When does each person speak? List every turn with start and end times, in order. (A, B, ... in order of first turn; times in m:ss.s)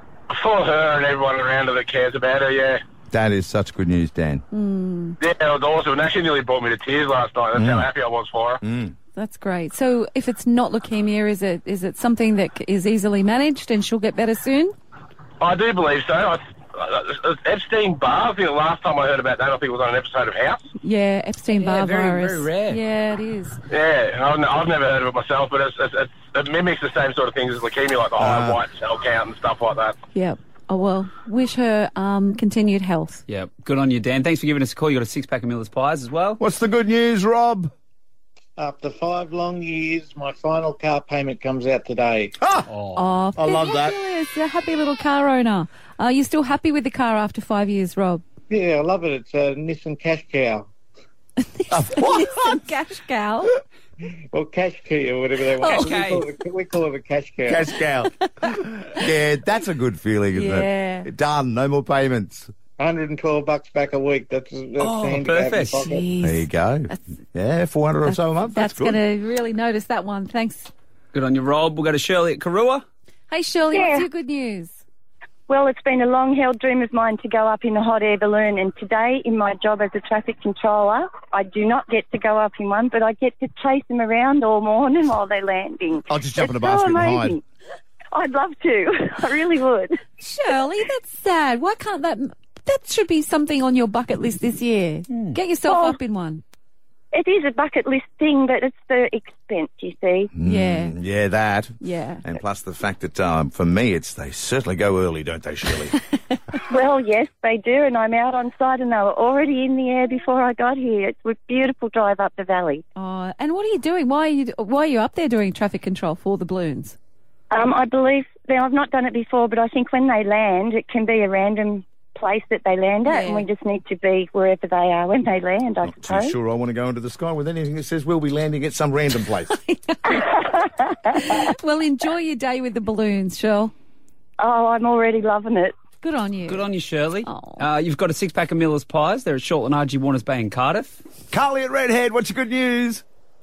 0:00.3-0:02.8 A
0:03.1-0:04.4 B
0:04.5-0:05.2 C
0:05.2-0:08.6 A
0:07.6-0:07.9 B
0:08.6-0:08.9 B
0:09.2-0:14.7 C
0:15.4-0:20.6 A
0:20.8-0:23.6 C
0:21.5-0:22.8 D
0:23.7-0:30.0 A
0:28.2-0:28.6 B
0:30.1-0:33.2 C
0:33.3-0:36.4 D
0:36.4-0:37.7 B
0:38.6-0:42.3 E
0:42.4-0:42.7 B
0:42.7-0:43.0 D
0:42.9-0:48.2 C
0:43.4-0:44.0 B
0:48.5-0:50.7 E
0:51.5-0:53.5 C
0:51.7-0:52.6 B
0:54.3-0:57.7 E
0:55.6-0:55.9 C
0:55.6-0:56.3 D
0:57.5-1:02.5 B
1:00.3-1:01.1 C
1:02.8-1:06.1 E
1:04.8-1:05.9 D
1:05.8-1:07.1 C
1:06.2-1:09.0 B
1:08.1-1:10.7 C
1:11.1-1:12.8 D
1:13.3-1:14.8 C
1:13.7-1:14.1 F
1:15.5-1:27.4 F
1:26.1-1:27.4 B
1:28.1-1:30.0 F
1:30.2-1:36.4 C
1:35.1-1:35.4 D
1:35.7-1:36.0 F
1:37.1-1:40.3 F
1:40.3-1:46.0 B
1:40.4-1:41.0 C
1:41.8-1:42.2 C
1:46.7-1:52.8 F
1:53.0-1:57.0 C
1:57.5-2:06.4 F
2:03.0-2:03.5 C
2:05.8-2:09.6 B
2:09.5-2:10.4 C
2:11.1-2:13.7 C
2:14.4-2:15.8 F
2:16.0-2:16.7 C
2:16.5-2:21.0 D
2:17.2-2:17.6 C
2:21.3-2:23.0 B